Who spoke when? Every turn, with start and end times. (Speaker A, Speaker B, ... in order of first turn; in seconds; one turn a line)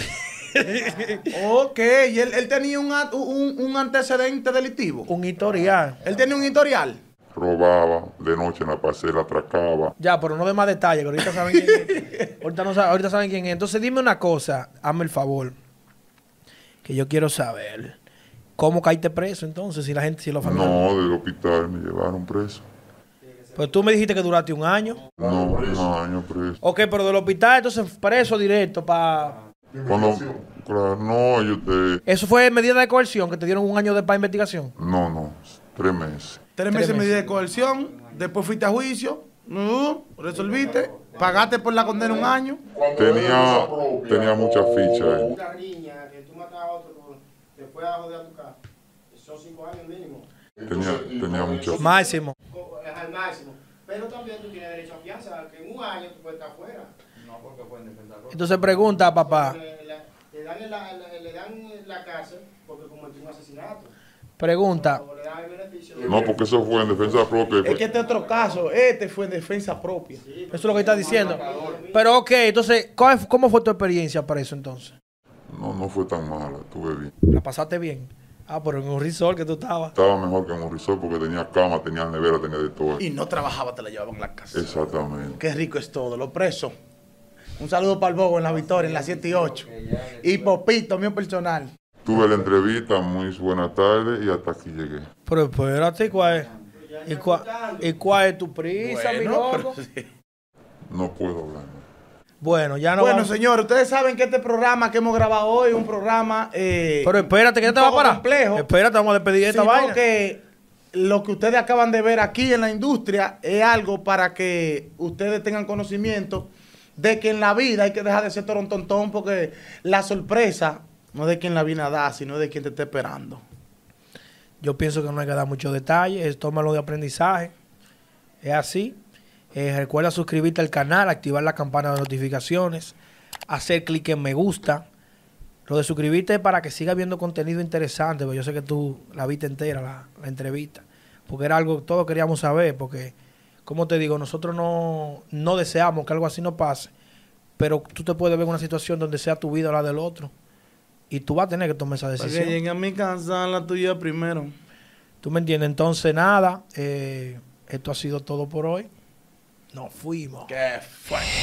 Speaker A: 0.3-1.3
Speaker B: 0.7-1.2
Speaker C: 1.3-5.1
Speaker A: 5.1-6.0
Speaker C: 6.0-7.0
Speaker D: 7.3-9.9
Speaker A: 10.0-15.5
Speaker A: 16.8-17.9
Speaker A: 18.6-20.8
Speaker D: 20.4-22.7
Speaker B: 23.2-24.0
Speaker A: 23.6-25.0
Speaker D: 25.2-26.6
Speaker A: 26.6-29.4
Speaker D: 29.8-32.0
Speaker A: 32.0-34.7
Speaker D: 34.8-36.4
Speaker C: 36.5-42.6
Speaker A: 36.7-37.1
Speaker E: 37.0-38.4
Speaker E: 40.2-42.1
Speaker B: 41.0-41.4
Speaker D: 42.9-45.3
Speaker B: 45.3-48.5
Speaker B: 49.1-50.3
Speaker D: 50.6-51.8
Speaker A: 51.8-52.3
Speaker B: 51.8-56.9
Speaker E: 57.1-58.9
Speaker A: 58.3-59.6
Speaker B: 59.0-63.9
Speaker A: 64.4-65.0
Speaker B: 64.7-66.6
Speaker D: 66.0-67.8
Speaker C: 67.6-70.2
Speaker E: 67.6-68.7
Speaker B: 70.2-72.0
Speaker A: 70.5-74.9
Speaker E: 70.7-71.8
Speaker D: 75.5-77.1
Speaker A: 77.2-79.9
Speaker D: 79.9-83.0
Speaker C: 83.0-84.6
Speaker D: 84.5-85.4
Speaker C: 85.4-86.7
Speaker C: 87.6-89.7
Speaker E: 88.5-90.6
Speaker C: 90.2-91.7
Speaker D: 92.0-95.1
Speaker A: 95.2-96.5
Speaker E: 96.2-96.6
Speaker B: 96.7-98.0
Speaker A: 97.1-99.7
Speaker C: 98.8-100.1
Speaker D: 100.9-101.8
Speaker A: 102.4-103.3
Speaker C: 103.0-108.7
Speaker A: 107.0-110.0
Speaker C: 109.5-110.4
Speaker C: 110.9-123.4
Speaker A: 124.6-127.5
Speaker A: 128.4-129.0
Speaker A: 129.5-132.9
Speaker A: 133.5-134.8
Speaker A: 135.7-143.1
Speaker A: 143.7-146.9
Speaker A: 147.6-150.3
Speaker A: 151.1-152.6
Speaker C: 152.2-154.5
Speaker A: 155.2-158.9
Speaker A: 159.7-160.5
Speaker C: 160.5-161.3